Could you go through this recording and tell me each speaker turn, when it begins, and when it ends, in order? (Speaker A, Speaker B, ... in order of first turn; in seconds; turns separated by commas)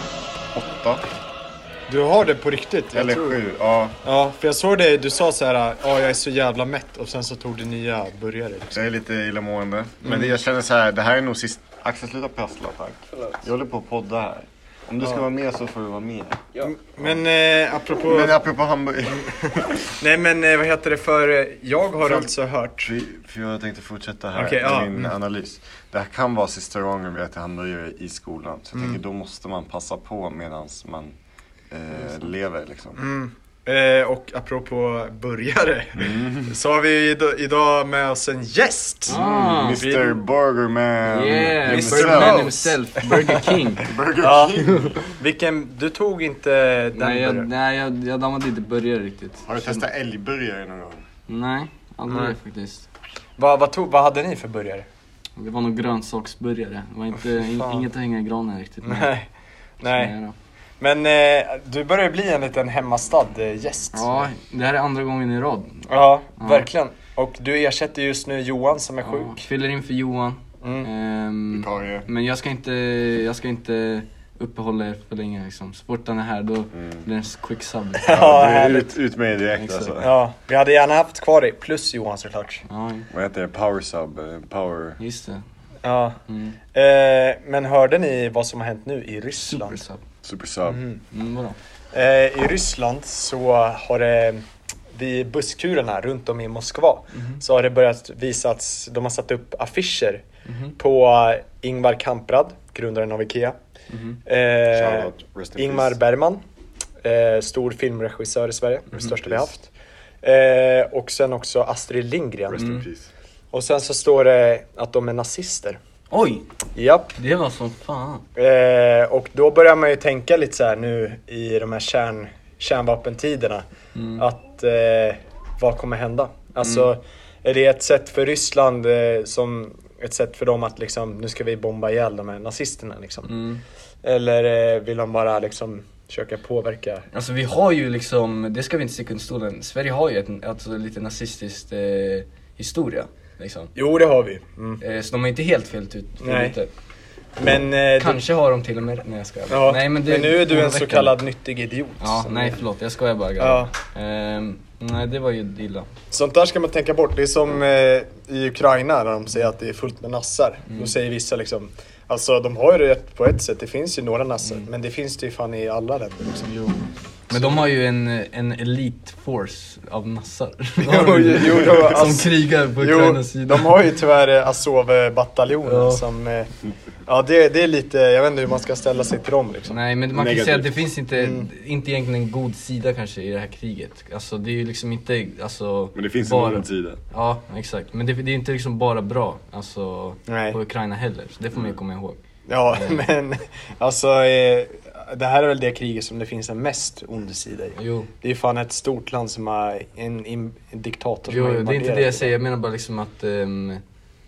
Speaker A: 0.5-1.1, Speaker B: 1.9-3.4, Speaker A: 2.9-4.0, Speaker B: 4.0-8.7, Speaker A: 8.7-16.5, Speaker B: 10.0-10.4, Speaker B: 16.6-18.4, Speaker A: 18.1-19.9, Speaker B: 19.9-22.9, Speaker A: 22.0-22.3, Speaker A: 22.8-31.1, Speaker B: 24.4-25.1, Speaker A: 31.7-33.0, Speaker B: 33.0-40.2, Speaker A: 36.0-36.6, Speaker C: 39.1-39.8, Speaker A: 39.1-42.5, Speaker C: 41.1-43.9, Speaker B: 41.7-43.4, Speaker A: 43.8-45.0, Speaker B: 44.2-47.5, Speaker C: 46.9-49.8, Speaker A: 49.5-51.1, Speaker C: 51.3-52.9, Speaker B: 52.1-52.3, Speaker B: 53.4-54.9, Speaker C: 55.4-59.1, Speaker B: 58.8-59.3, Speaker B: 59.8-60.1, Speaker C: 59.9-60.4, Speaker B: 60.8-64.3, Speaker C: 63.9-66.7, Speaker B: 65.9-69.4, Speaker C: 69.0-78.8, Speaker B: 70.6-70.9, Speaker A: 71.5-72.1, Speaker A: 76.8-77.1, Speaker B: 78.0-78.9, Speaker A: 78.1-80.2, Speaker C: 79.5-80.0, Speaker B: 80.0-82.6, Speaker C: 82.7-83.1, Speaker A: 83.1-85.0, Speaker C: 85.0-85.4, Speaker B: 85.8-86.2, Speaker C: 86.3-86.6, Speaker B: 86.7-89.8, Speaker C: 89.4-90.0, Speaker A: 90.2-90.8, Speaker B: 90.7-91.0, Speaker C: 91.1-91.6, Speaker B: 91.9-100.2, Speaker C: 97.2-97.4, Speaker C: 100.5-100.8, Speaker B: 100.8-103.6, Speaker C: 103.9-104.2, Speaker B: 104.3-106.4, Speaker A: 104.7-106.0, Speaker B: 107.0-109.7, Speaker A: 109.2-109.5, Speaker B: 110.2-112.7, Speaker A: 112.5-113.1, Speaker C: 112.6-112.8, Speaker B: 113.5-115.8, Speaker C: 116.1-116.5, Speaker B: 116.8-117.2, Speaker C: 117.2-118.2, Speaker B: 118.4-123.7, Speaker C: 124.0-124.3, Speaker B: 124.2-133.4, Speaker C: 126.6-126.9, Speaker C: 133.3-133.6, Speaker B: 134.0-137.1, Speaker C: 137.1-143.7, Speaker B: 143.8-144.8, Speaker C: 144.8-146.7, Speaker B: 146.2-146.6, Speaker B: 147.4-148.2, Speaker C: 148.0-151.2, Speaker B: 149.5-152.6, Speaker C: 152.0-155.9, Speaker B: 153.4-153.7, Speaker B: 156.1-166.5, Speaker C: 160.7-160.9, Speaker C: 166.4-173.8, Speaker B: 167.3-167.6, Speaker B: 170.8-179.8, Speaker C: 175.7-176.0, Speaker C: 179.7-193.1, Speaker A: 180.1-180.9, Speaker B: 181.2-181.5, Speaker A: 185.9-187.0, Speaker B: 190.3-190.6, Speaker B: 192.5-202.3, Speaker C: 197.8-198.1, Speaker C: 201.3-203.8